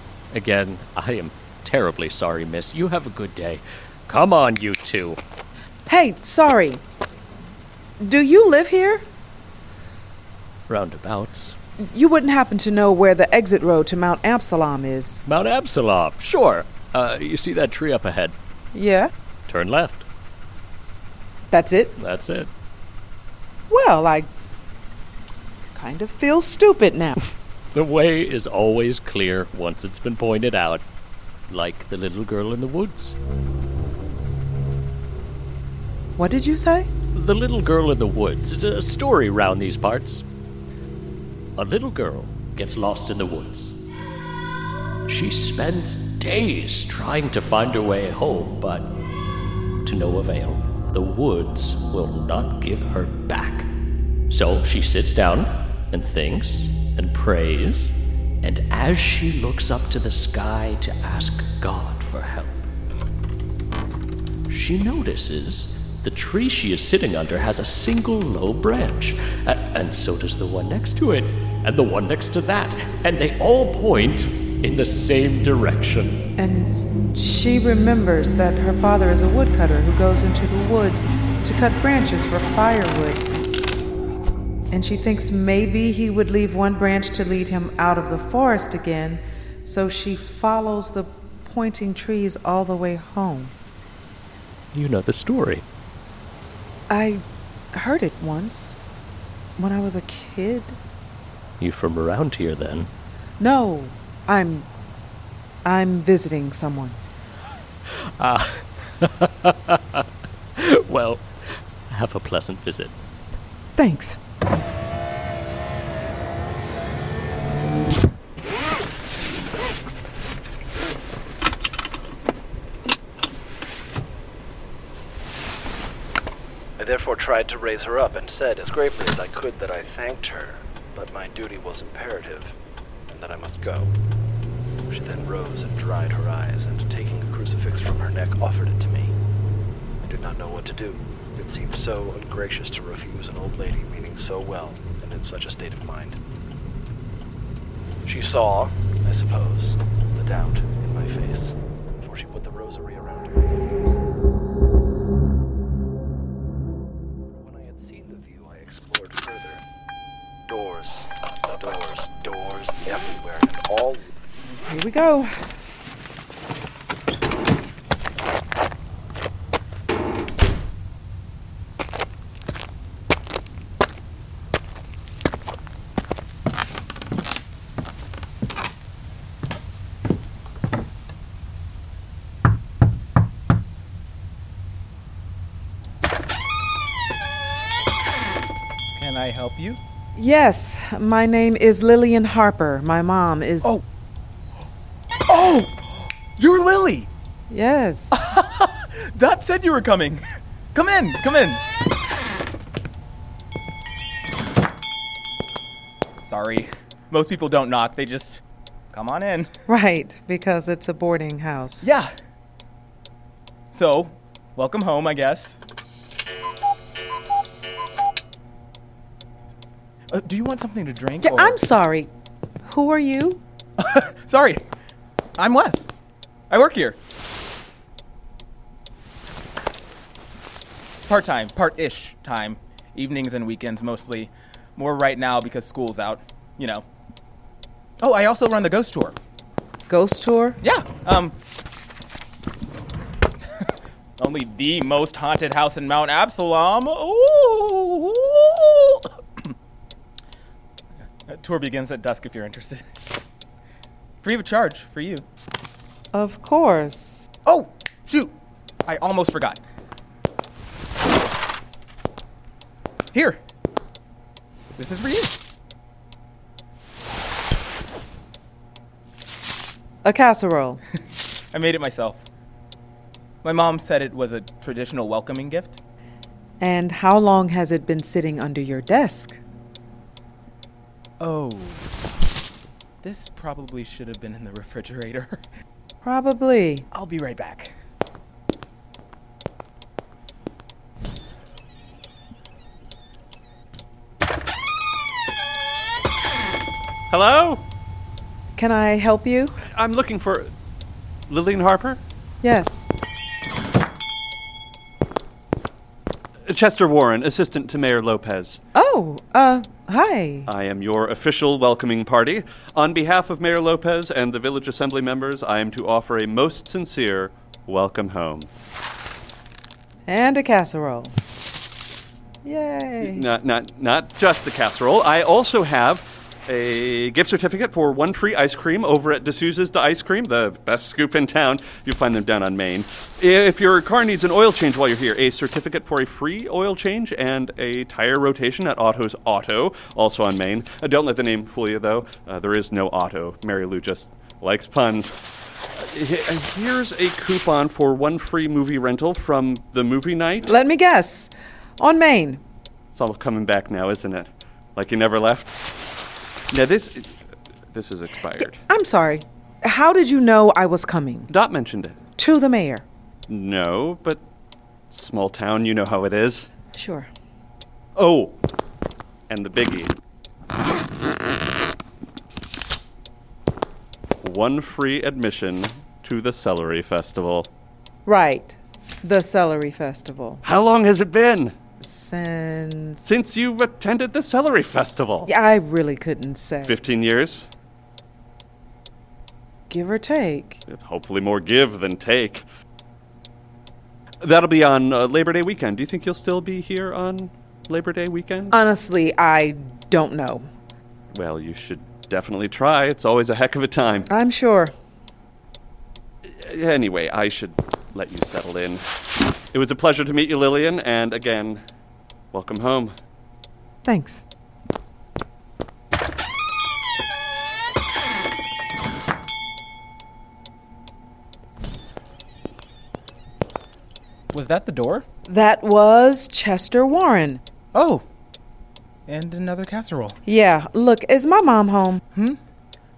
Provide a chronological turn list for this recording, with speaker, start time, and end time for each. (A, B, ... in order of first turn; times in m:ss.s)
0:00.3-0:05.2 A
0:05.9-0:06.8 B
0:08.0-0:09.0 B
0:10.7-0:11.6 A
0:11.8-0:15.2 B
0:15.2-0:18.3 A
0:18.7-0:19.1 B
0:19.5-0:20.0 A
0:21.5-0:22.0 B
0:22.0-0:22.5 A
0:23.7-0:24.3 B
0:25.7-0:27.2 B
0:27.7-0:30.8 A
0:31.5-0:33.1 A
0:36.2-0:36.9 B
0:37.1-0:40.2 A
0:41.6-0:43.7 A
0:45.1-0:48.9 A
0:49.8-0:53.7 A
0:54.3-1:02.6 A
1:04.5-1:16.2 A
1:16.4-1:23.2 B
1:24.7-1:33.5 B
1:34.7-1:35.6 A
1:36.9-1:37.2 B
1:37.7-1:38.8 B
1:39.6-1:40.8 B
1:41.6-1:42.9 A
1:43.4-1:44.7 B
1:45.6-1:47.0 B
1:48.2-1:49.8 A
1:50.6-1:51.2 A
1:51.9-1:52.9 A
1:53.8-1:54.2 B
2:06.8-2:12.6 C
2:13.1-2:13.9 C
2:14.9-2:19.1 C
2:20.0-2:26.2 C
2:28.0-2:34.1 C
2:37.3-2:39.6 C
2:40.5-2:44.1 C
2:44.6-2:45.3 B
3:09.0-3:09.8 D
3:10.2-3:13.7 B
3:15.3-3:17.1 D
3:17.5-3:18.2 B
3:18.1-3:21.6 D
3:26.2-3:28.4 D
3:28.9-3:29.5 D
3:29.7-3:31.9 B
3:31.8-3:32.1 D
3:33.7-3:35.6 D
3:40.1-3:41.6 D
3:41.2-3:42.1 B
3:42.6-3:43.4 B
3:43.8-3:44.6 D
3:45.4-3:45.9 D
3:46.5-3:47.0 D
3:51.1-3:56.8 D
3:58.0-3:59.1 D
3:59.9-4:00.6 B
4:00.6-4:01.3 D
4:03.6-4:09.5 D
4:11.3-4:12.8 D
4:14.2-4:15.2 D
4:16.1-4:17.3 B
4:17.4-4:19.6 D
4:23.1-4:23.4 D
4:24.8-4:25.3 D
4:30.0-4:30.8 B
4:31.5-4:32.2 D
4:33.4-4:35.8 D
4:36.6-4:39.4 B
4:41.2-4:41.8 D
4:43.0-4:45.4 D
4:46.0-4:46.8 B
4:46.9-4:47.7 D
4:57.1-4:57.6 E
4:58.6-4:59.6 B
4:59.7-5:00.5 E
5:01.3-5:02.0 E
5:02.4-5:02.9 B
5:06.5-5:08.6 E
5:08.7-5:10.5 B
5:10.5-5:18.5 E
5:20.1-5:21.2 B
5:22.4-5:23.3 B
5:23.0-5:45.2 E
5:45.8-5:50.6 E
5:50.4-5:52.4 B
5:52.9-5:55.5 E
5:56.5-5:57.2 E
5:57.7-5:58.6 E
5:58.4-6:01.3 B
6:01.3-6:02.0 E
6:02.2-6:02.8 B
6:03.3-6:04.2 E
6:04.9-6:06.5 E
6:06.7-6:07.1 B
6:08.0-6:08.4 E
6:09.3-6:09.9 E
6:14.2-6:17.5 E
6:18.0-6:20.4 B
6:20.4-6:21.5 E
6:21.8-6:23.0 B
6:23.0-6:25.3 E
6:25.2-6:26.8 B
6:26.6-6:27.5 E
6:29.7-6:30.6 B
6:30.7-6:32.4 E
6:34.2-6:38.6 E
6:38.5-6:40.5 B
6:41.1-6:44.1 E
6:44.1-6:44.7 B
6:46.3-6:48.8 E
6:49.5-6:51.6 E
6:52.3-6:52.9 E
6:53.8-6:54.2 B
7:04.3-7:05.0 D
7:05.3-7:07.4 B
7:07.7-7:08.0 D
7:09.1-7:10.2 D
7:10.2-7:12.0 B